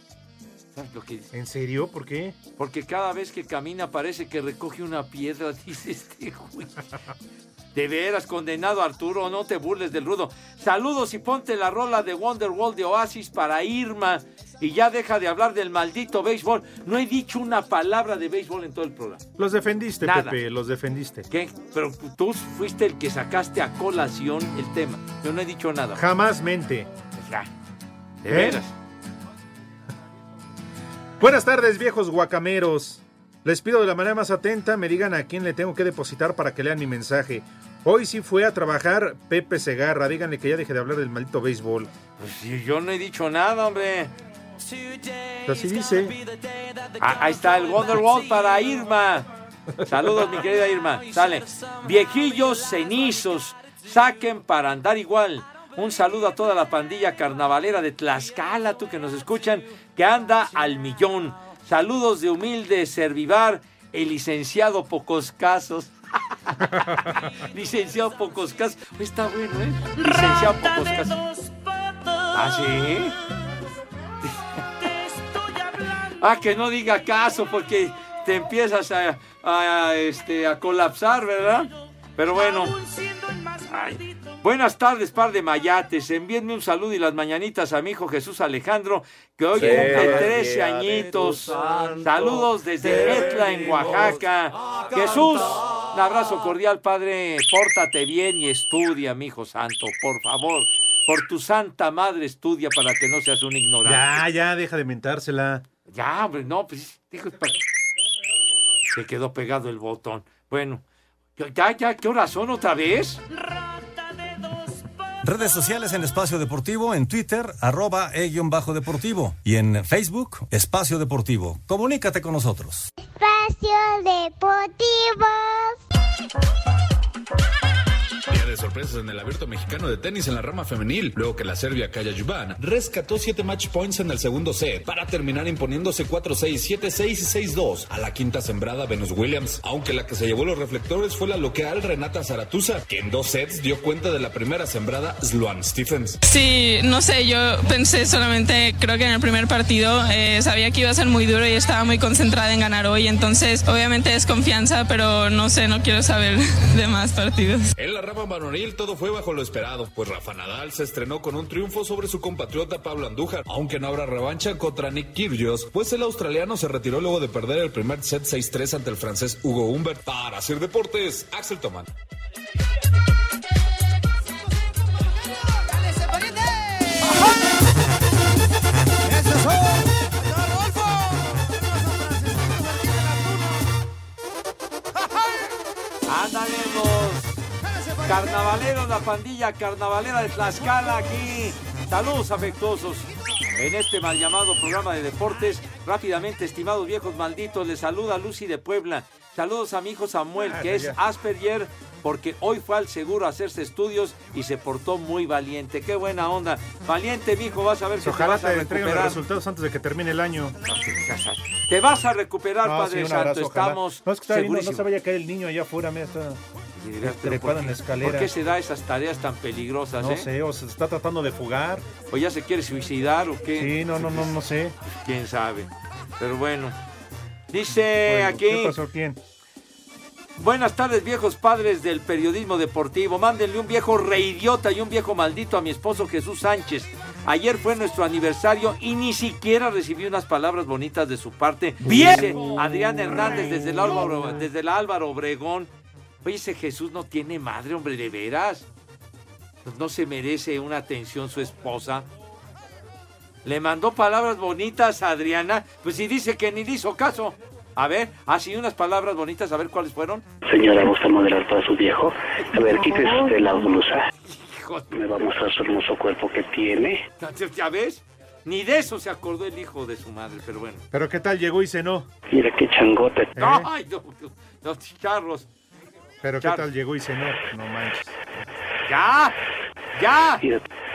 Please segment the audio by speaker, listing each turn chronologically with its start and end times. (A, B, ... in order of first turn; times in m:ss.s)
0:00.8-0:01.3 A
0:01.3-0:02.4 B
0:02.6-0:06.8 A
0:07.7-0:19.2 A
0:19.4-0:21.3 B
0:20.0-0:20.4 A
0:21.3-0:26.0 A
0:25.9-0:26.9 B
0:27.2-0:27.5 A
0:28.2-0:28.7 A
0:28.3-0:28.6 B
0:31.2-0:41.9 B
0:42.2-0:44.1 A
0:45.4-0:46.2 B
0:47.0-0:49.3 A
0:49.8-1:05.9 A
1:06.5-1:11.2 A
1:12.3-1:13.2 A
1:16.2-1:22.8 A
1:23.7-1:44.2 A
1:29.6-1:30.4 B
1:43.8-1:45.6 B
1:45.9-1:47.6 A
1:48.9-1:50.8 A
1:51.4-1:53.2 A
1:55.2-2:02.9 C
2:03.0-2:05.8 D
2:08.3-2:26.2 E
2:26.3-2:37.7 F
2:37.8-2:51.9 E
3:06.1-3:07.4 A
3:08.0-3:29.2 A
3:20.4-3:21.0 B
3:28.0-3:30.6 B
3:30.7-3:34.9 A
3:32.6-3:36.4 B
3:36.8-3:40.3 A
3:37.0-3:38.3 B
3:40.0-3:41.9 B
3:42.1-3:46.8 A
3:43.5-3:44.8 B
3:47.5-3:48.8 A
3:47.8-3:49.2 B
3:50.4-4:05.7 A
4:01.8-4:02.5 B
4:06.2-4:08.7 A
4:09.6-4:12.1 A
4:13.4-4:20.3 A
4:20.5-4:24.1 G
4:24.3-4:24.9 A
4:24.9-4:27.0 G
4:27.2-4:30.8 A
4:30.9-4:32.1 B
4:32.3-4:33.3 G
4:33.4-4:33.7 B
4:33.4-4:35.5 A
4:36.2-4:38.2 B
4:36.4-4:36.7 A
4:38.9-4:39.4 A
4:40.0-4:40.4 A